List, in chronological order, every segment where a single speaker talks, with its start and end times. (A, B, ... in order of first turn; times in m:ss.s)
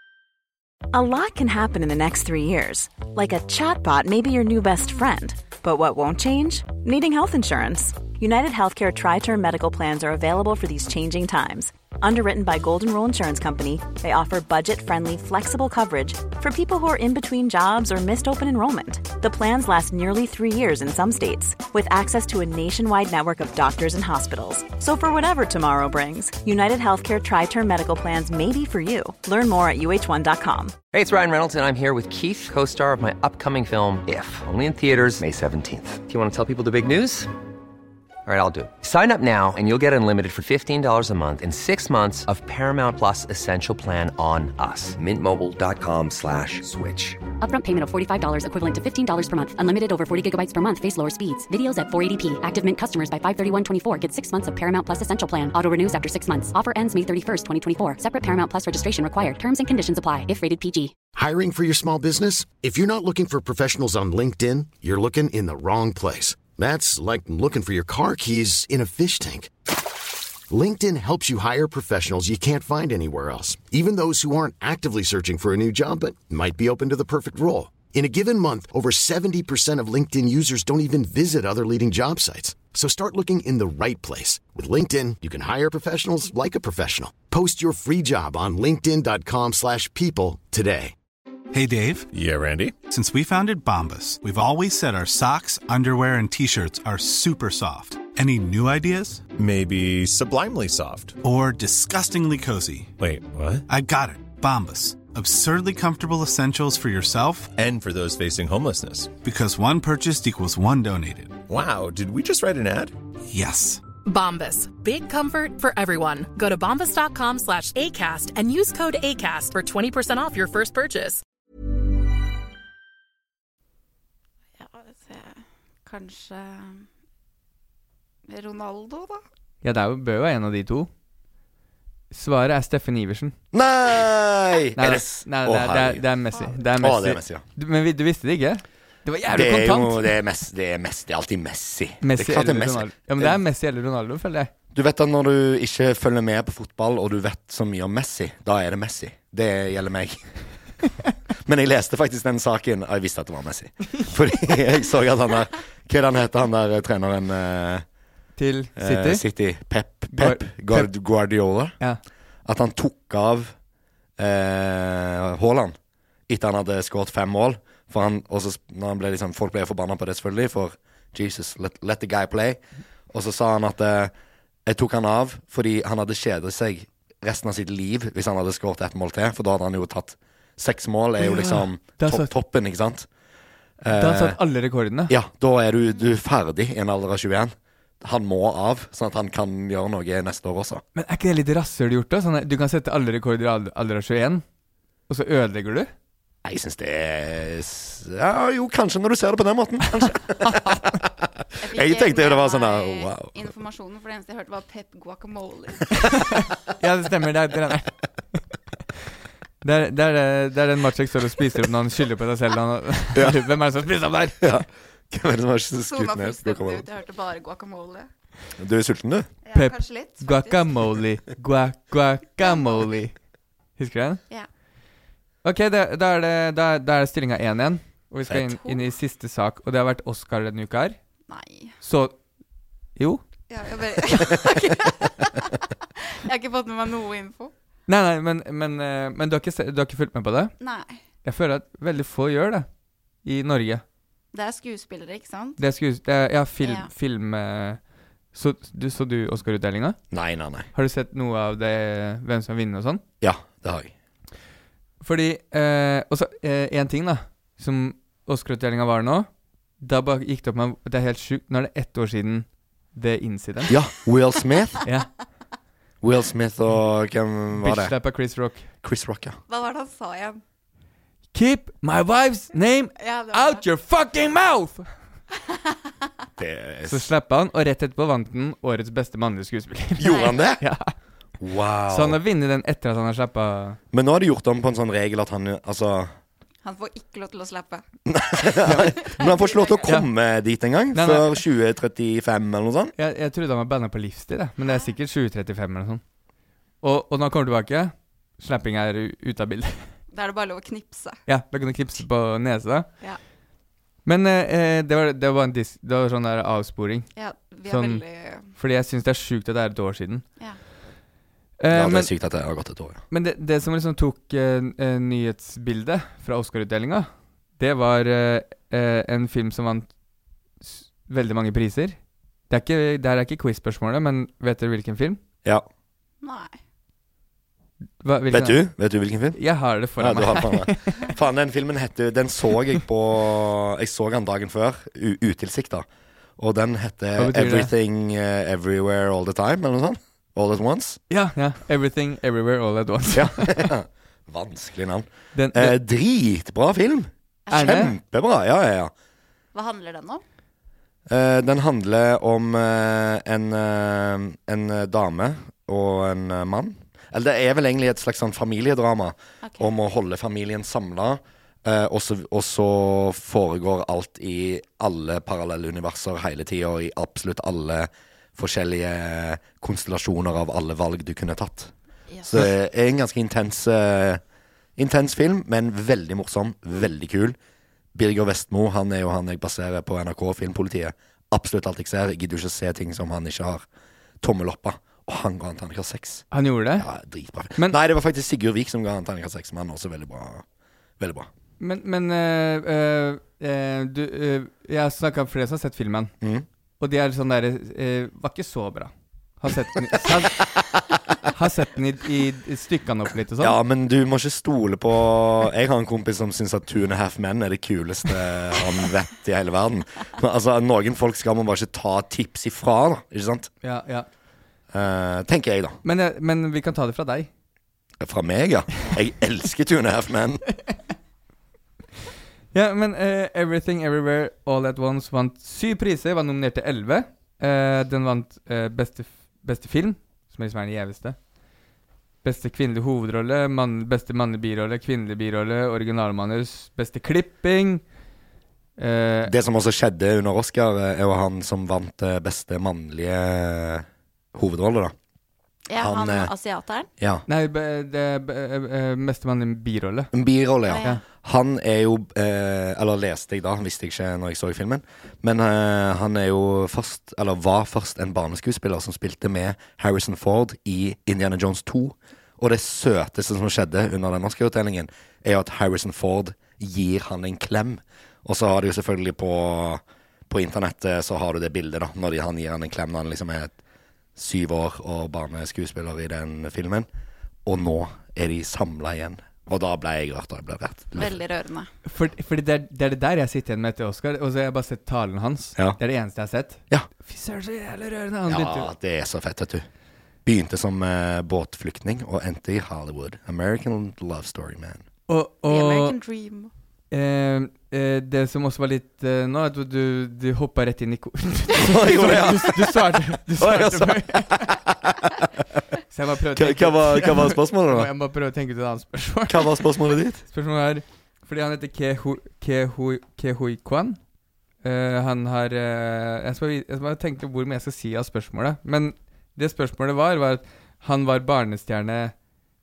0:00.9-0:30.8 A
0:30.9-0:37.3 B
0:38.2-0:47.2 B
0:47.4-1:00.9 C
1:01.2-1:09.5 D
1:10.5-1:30.9 D
1:31.5-1:32.0 E
1:32.1-1:32.8 F
1:32.9-1:39.2 E
1:39.4-1:41.2 F
1:41.2-1:42.9 E
1:43.0-1:43.6 F
1:43.7-1:47.5 E
1:47.6-1:49.2 F
1:49.2-1:51.3 E
1:51.5-1:52.9 F
1:53.3-1:53.8 E
1:54.0-2:01.2 G
2:04.6-2:06.8 H
2:08.3-2:09.2 H
2:09.6-2:10.9 I
2:12.1-2:13.3 I
2:13.5-2:16.0 J
2:14.8-2:20.0 I
2:16.8-2:17.4 J
2:19.3-2:23.4 J
2:22.0-2:24.5 I
2:24.7-2:30.2 J
2:31.4-2:37.8 J
2:38.4-2:39.2 I
2:38.8-2:41.8 J
2:40.1-2:40.9 I
2:42.4-2:43.5 J
2:44.2-2:45.8 J
2:46.3-2:54.1 J
2:54.6-3:03.1 J
3:01.2-3:02.3 I
3:03.8-3:04.4 J
3:03.9-3:05.1 I
3:05.1-3:10.8 J
3:10.9-3:14.4 I
3:15.1-3:15.9 I
3:16.4-3:23.3 J
3:21.6-3:26.1 H
3:26.0-3:28.0 I
3:29.6-3:34.6 I
3:33.1-3:33.4 J
3:34.4-3:36.8 J
3:35.9-3:38.1 H
3:38.6-3:39.3 J
3:39.4-3:40.7 H
3:39.5-3:43.1 I
3:42.4-3:42.8 H
3:43.8-3:44.2 I
3:45.4-3:51.0 I
3:51.3-3:51.7 H
3:51.8-3:52.2 I
3:53.0-3:53.2 I
3:53.5-3:57.5 H
3:57.9-4:00.5 I
4:00.6-4:01.0 H
4:01.2-4:02.7 I
4:03.2-4:03.8 I
4:04.3-4:05.6 H
4:05.6-4:07.8 I
4:06.6-4:06.9 H
4:08.3-4:10.0 I
4:10.1-4:10.7 J
4:10.7-4:13.0 I
4:13.2-4:13.9 J
4:15.0-4:19.3 I
4:19.8-4:23.7 I
4:23.7-4:24.8 J
4:26.0-4:27.9 J
4:27.6-4:28.7 I
4:28.8-4:29.4 J
4:29.5-4:30.4 H
4:31.3-4:34.9 I
4:33.0-4:33.6 H
4:36.4-4:37.1 J
4:36.8-4:40.9 I
4:40.0-4:40.6 J
4:40.1-4:40.4 H
4:41.4-4:42.2 J
4:41.9-4:43.8 I
4:43.9-4:46.1 J
4:46.6-4:47.8 H
4:48.0-4:52.9 J
4:48.6-4:48.9 I
4:49.0-4:49.8 H
4:50.9-4:51.3 I
4:53.0-4:56.0 I
4:56.8-4:59.9 I
5:00.1-5:01.2 H
5:01.3-5:02.9 I
5:04.0-5:07.1 I
5:07.2-5:08.5 H
5:07.7-5:10.2 I
5:11.6-5:12.1 I
5:11.7-5:13.0 J
5:13.1-5:19.9 I
5:20.6-5:22.0 I
5:22.5-5:25.2 I
5:26.2-5:26.6 H
5:28.0-5:28.6 I
5:28.3-5:29.4 J
5:29.4-5:31.1 I
5:30.0-5:35.8 J
5:36.4-5:41.0 J
5:37.2-5:37.7 I
5:41.1-5:43.7 I
5:43.1-5:48.9 J
5:45.3-5:45.8 I
5:47.5-5:47.9 H
5:47.5-5:47.9 I
5:49.5-5:50.2 H
5:51.1-6:11.7 J
5:59.4-5:59.7 H
6:12.1-6:12.4 H
6:12.2-6:14.2 J
6:14.8-6:17.4 J
6:17.9-6:23.6 J
6:24.2-6:26.2 J
6:26.3-6:26.9 I
6:26.8-6:30.4 J
6:31.0-6:31.3 J
6:31.6-6:36.1 I
6:36.2-6:36.4 J
6:36.8-6:40.4 I
6:41.3-6:43.6 I
6:43.4-6:53.5 J
6:53.6-6:54.1 I
6:54.7-6:55.8 J
6:55.8-6:57.3 I
6:58.0-7:00.4 J
7:02.5-7:11.2 I
7:12.2-7:17.8 I
7:18.8-7:19.3 I
7:19.2-7:24.9 J
7:25.7-7:26.9 H
7:25.8-7:26.3 J
7:27.0-7:27.2 J
7:27.3-7:30.1 I
7:30.1-7:53.5 J
7:30.7-7:31.0 H
7:54.2-7:56.9 J
7:57.4-8:01.2 J
8:01.0-8:01.7 H
8:01.8-8:08.7 I
8:08.3-8:09.6 J
8:10.2-8:14.8 J
8:15.1-8:16.0 I
8:15.4-8:16.5 H
8:16.9-8:24.5 I
8:21.5-8:25.2 J
8:25.9-8:29.5 I
8:26.3-8:27.9 J
8:29.3-8:30.2 J
8:30.2-8:34.0 I
8:34.6-8:42.1 I